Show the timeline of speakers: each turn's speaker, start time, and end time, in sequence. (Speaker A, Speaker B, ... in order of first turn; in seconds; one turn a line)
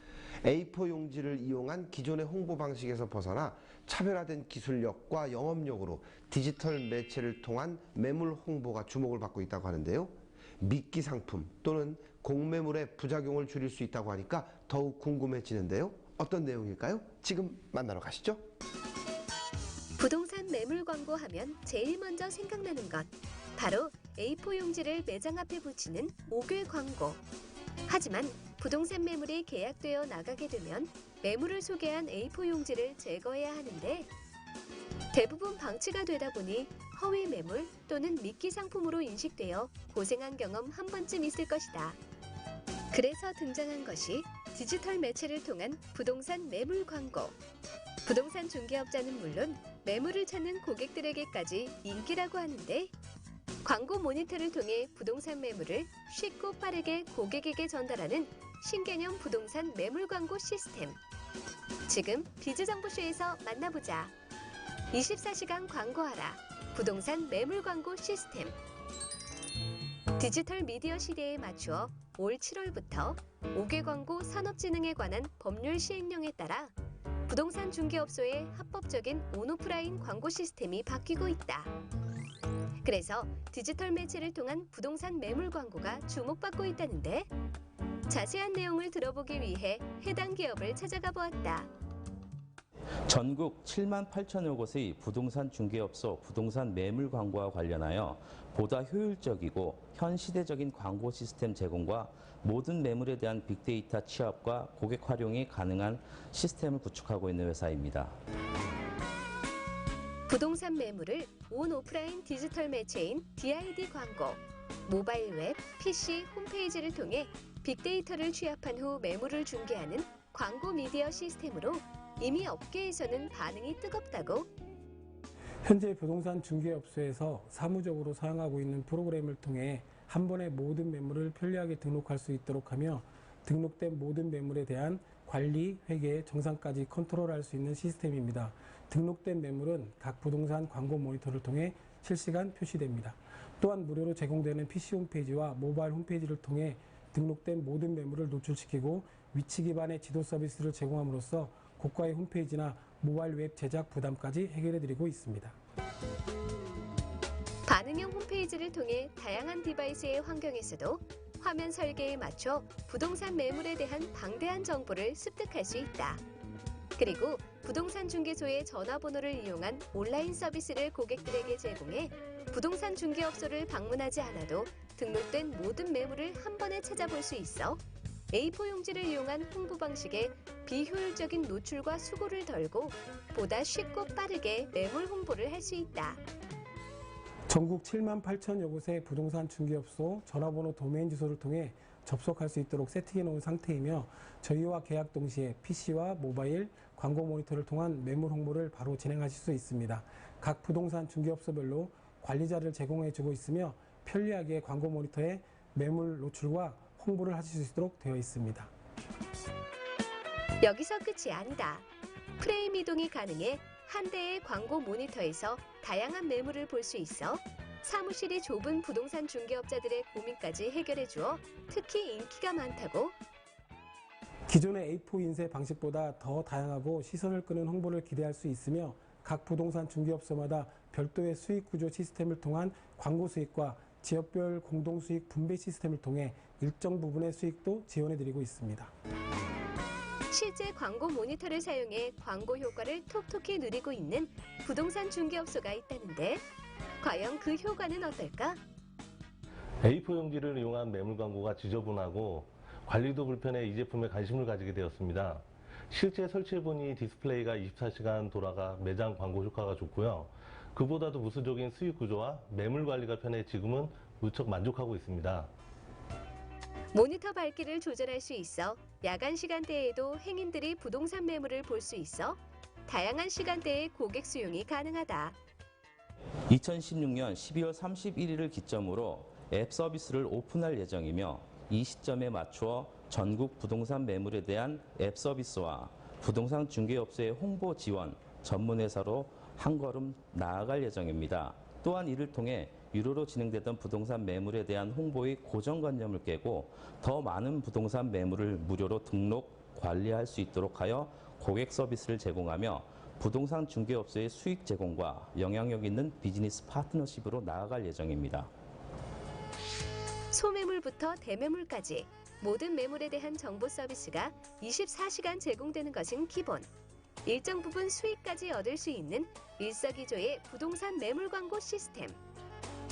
Speaker A: 0.4-18.4
Speaker B: 20.0-27.2
Speaker B: 27.9-34.1
Speaker B: 35.1-42.0
Speaker B: 42.9-47.4
Speaker B: 48.0-52.9
Speaker B: 53.6-61.0
Speaker B: 61.9-64.1
Speaker B: 64.9-68.6
Speaker B: 70.2-76.7
Speaker B: 77.3-81.7
Speaker B: 82.8-87.3
Speaker B: 88.1-91.7
Speaker C: 93.1-108.2
Speaker B: 110.3-124.5
Speaker D: 125.6-155.6
Speaker B: 157.7-166.2
Speaker B: 167.0-177.8
Speaker B: 178.3-186.2
Speaker D: 187.5-208.7
Speaker B: 210.6-211.9
Speaker B: 212.4-223.2
Speaker D: 224.5-238.9
Speaker B: 240.3-246.4
Speaker B: 247.0-248.6
Speaker E: 249.8-265.5
Speaker B: 266.9-275.4
Speaker C: 276.5-308.5
Speaker B: 310.3-316.7
Speaker B: 317.2-322.2